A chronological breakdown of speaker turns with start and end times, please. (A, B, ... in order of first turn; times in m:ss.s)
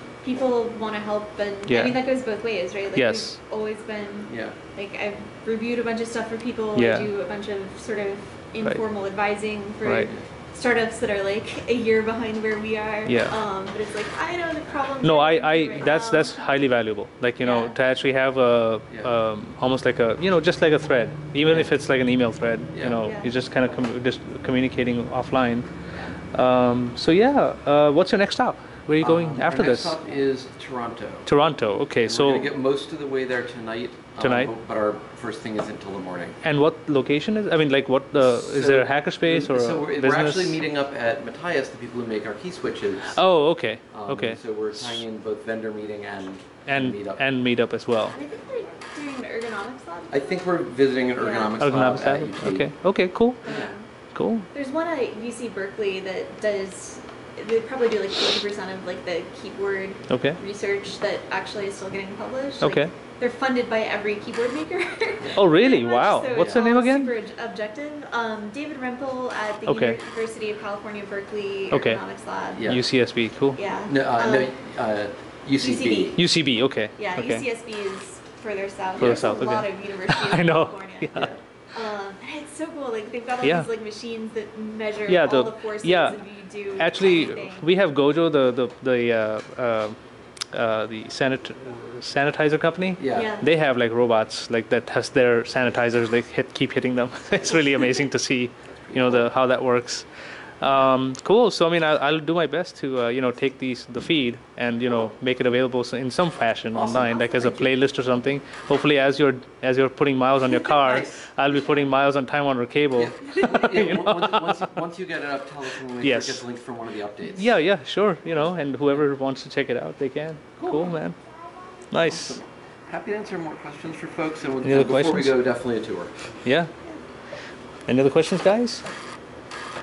0:00.2-0:16.4 A
0:01.7-0:02.0 B
0:02.9-0:03.4 B
0:04.3-0:04.6 C
0:06.7-0:07.1 B
0:09.8-0:10.1 B
0:13.0-0:13.3 B
0:15.0-0:25.7 B
0:17.4-0:17.7 A
0:21.4-0:21.7 C
0:22.7-0:23.0 C
0:23.0-0:23.3 A
0:26.3-0:30.0 B
0:29.0-0:31.3 C
0:31.2-0:32.5 B
0:32.0-0:36.4 C
0:34.2-0:34.5 B
0:36.4-0:40.6 B
0:38.1-0:43.2 C
0:43.1-0:45.0 B
0:43.9-0:47.2 C
0:46.6-0:48.1 B
0:48.1-0:50.5 A
0:50.1-0:52.7 C
0:51.2-0:51.8 A
0:51.6-0:53.5 B
0:53.4-0:53.9 A
0:53.4-0:53.7 C
0:54.1-0:54.5 B
0:54.5-1:12.6 A
1:00.1-1:00.4 B
1:02.6-1:02.9 B
1:05.3-1:07.1 B
1:09.6-1:10.0 B
1:11.7-1:12.0 B
1:12.6-1:12.8 C
1:12.6-1:13.6 B
1:13.5-1:14.5 A
1:13.8-1:16.2 C
1:15.6-1:16.2 A
1:16.2-1:17.4 B
1:17.0-1:27.7 A
1:19.0-1:19.3 C
1:19.0-1:21.3 B
1:23.4-1:23.7 B
1:25.1-1:30.0 B
1:30.5-1:40.1 B
1:33.0-1:33.3 C
1:33.1-1:33.4 A
1:38.9-1:39.3 C
1:40.6-1:54.7 B
1:46.7-1:47.8 C
1:50.4-1:51.3 C
1:52.9-1:57.5 C
1:56.0-1:56.4 B
1:57.3-2:01.2 B
2:00.6-2:01.0 C
2:01.9-2:02.4 B
2:02.0-2:06.4 C
2:04.6-2:05.4 B
2:06.4-2:06.7 B
2:07.9-2:08.8 B